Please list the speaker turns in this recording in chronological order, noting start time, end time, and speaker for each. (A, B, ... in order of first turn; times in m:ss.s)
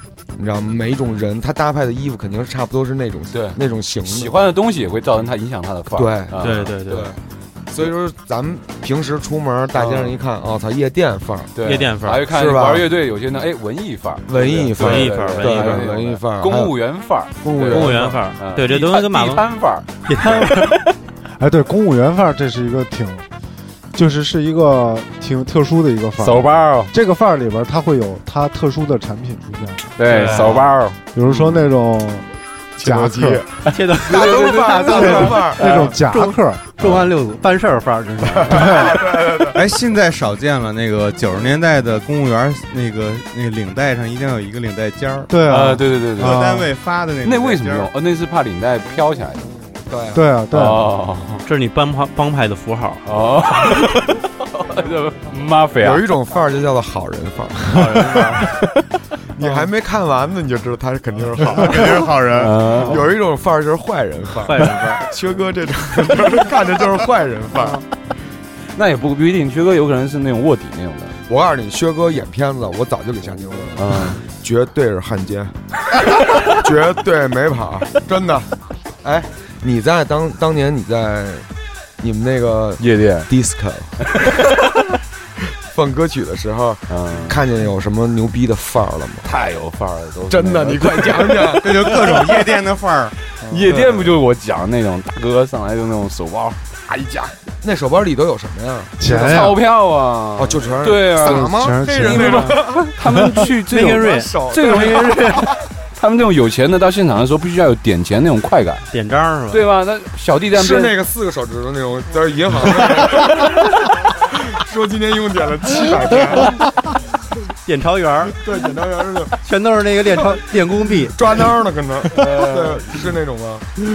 0:00.4-0:04.4 A
0:03.3-0:07.1 B
0:06.0-0:07.2 A
0:06.4-0:07.1 C
0:07.7-0:11.5 A
0:09.8-0:10.2 B
0:11.6-0:20.8 B
0:11.6-0:12.2 C
0:12.3-0:12.9 A
0:14.3-0:16.7 A
0:14.8-0:15.8 C
0:17.4-0:18.2 A
0:17.7-0:19.4 C
0:20.0-0:20.7 C
0:21.4-0:23.2 D
0:23.9-0:29.9 D
0:26.2-0:26.9 B
0:30.0-0:31.0 B
0:30.1-0:30.7 C
0:31.1-0:32.3 D
0:31.2-0:31.7 A
0:32.8-0:35.9 A
0:32.8-0:33.4 D
0:33.7-0:38.8 C
0:34.0-0:35.8 B
0:34.9-0:36.6 D
0:38.3-0:39.6 A
0:38.5-0:39.0 D
0:39.5-0:45.4 E
0:45.3-0:46.7 D
0:45.5-0:46.6 B
0:46.2-0:47.9 E
0:47.2-0:49.5 B
0:49.9-0:50.2 A
0:50.1-0:50.9 D
0:50.5-0:51.4 B
0:51.4-0:53.0 C
0:53.1-0:56.1 B
0:55.8-0:58.2 A
0:57.7-0:58.5 C
0:59.4-1:02.2 A
1:01.6-1:02.6 E
1:02.4-1:03.1 B
1:02.7-1:07.8 A
1:04.5-1:05.1 C
1:08.8-1:11.2 B
1:11.3-1:15.5 A
1:13.8-1:14.2 B
1:16.1-1:18.5 A
1:19.0-1:21.5 A
1:22.0-1:24.4 A
1:22.8-1:23.3 B
1:25.7-1:29.3 A
1:26.9-1:27.4 B
1:29.2-1:32.5 B
1:30.3-1:32.0 A
1:31.6-1:33.2 E
1:33.5-1:37.3 B
1:33.7-1:34.2 A
1:37.6-1:39.0 A
1:39.0-1:39.6 D
1:39.0-1:48.8 B
1:40.4-1:43.0 A
1:41.2-1:43.3 D
1:43.7-1:45.3 C
1:43.9-1:45.4 A
1:48.9-1:49.6 C
1:49.5-1:51.0 B
1:50.5-1:56.6 A
1:57.6-1:58.4 C
1:58.3-1:59.4 A
1:59.4-2:01.2 C
2:01.1-2:03.7 A
2:02.1-2:02.9 B